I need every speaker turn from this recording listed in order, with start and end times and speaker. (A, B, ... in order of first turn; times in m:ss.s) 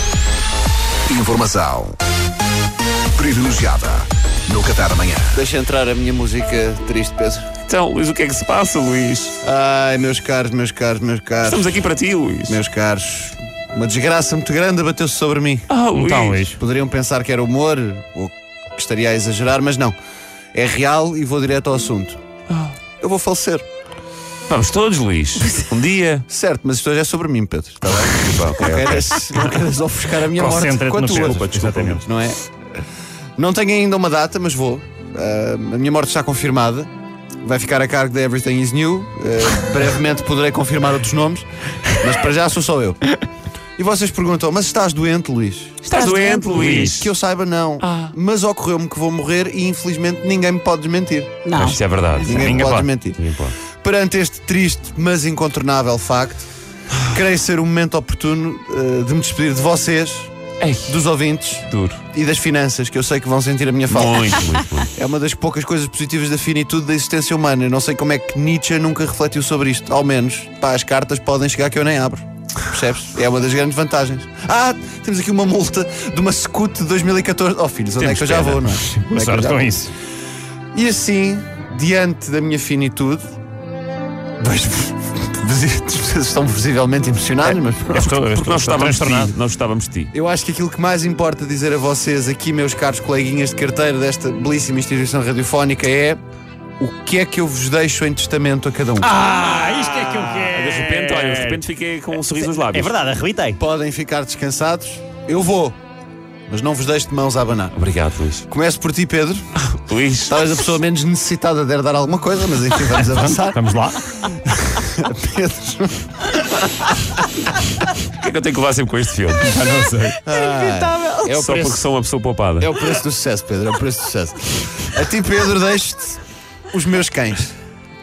0:01.1-0:01.9 A
0:03.2-0:05.4 A
0:05.3-0:07.5 B
0:07.6-0:09.3 C
0:09.4-0:11.7 B
0:11.4-0:12.6 C
0:12.5-0:15.7 B
0:15.7-0:16.6 C
0:15.9-0:16.6 D
0:16.5-0:19.9 B
0:20.5-0:22.2 B
0:22.5-0:22.7 C
0:23.0-0:23.6 B
0:24.5-0:26.2 C
0:26.3-0:32.4 B
0:28.1-0:29.6 C
0:30.3-0:32.0 D
0:31.0-0:32.0 C
0:33.4-0:36.9 B
0:37.4-0:43.0 B
0:43.8-0:45.9 B
0:45.8-0:47.1 C
0:45.9-0:46.6 E
0:46.5-0:51.4 B
0:46.6-0:47.0 D
0:47.8-0:48.1 C
0:51.4-0:51.8 E
0:51.6-0:53.5 C
0:52.2-0:53.2 B
0:52.3-0:52.9 D
0:53.8-0:56.4 B
0:57.0-1:00.3 B
1:00.6-1:01.0 C
1:00.9-1:19.8 B
1:01.7-1:02.0 C
1:03.9-1:04.9 C
1:18.0-1:18.6 C
1:18.4-1:19.9 D
1:20.7-1:23.2 B
1:24.4-1:28.3 B
1:27.4-1:29.3 D
1:28.3-1:30.1 C
1:30.1-1:36.2 B
1:36.8-1:39.2 B
1:39.0-1:41.6 D
1:39.4-1:43.0 C
1:42.3-1:43.6 D
1:43.6-1:45.8 B
1:46.5-1:47.8 B
1:47.7-1:48.5 C
1:48.5-1:49.5 B
1:49.6-1:50.6 C
1:50.3-1:53.6 B
1:53.0-1:54.0 D
1:54.2-1:57.2 B
1:58.1-1:59.6 C
1:59.4-2:00.2 D
2:00.2-2:01.8 B
2:00.3-2:01.4 E
2:01.3-2:02.7 C
2:02.6-2:06.2 B
2:06.7-2:07.5 B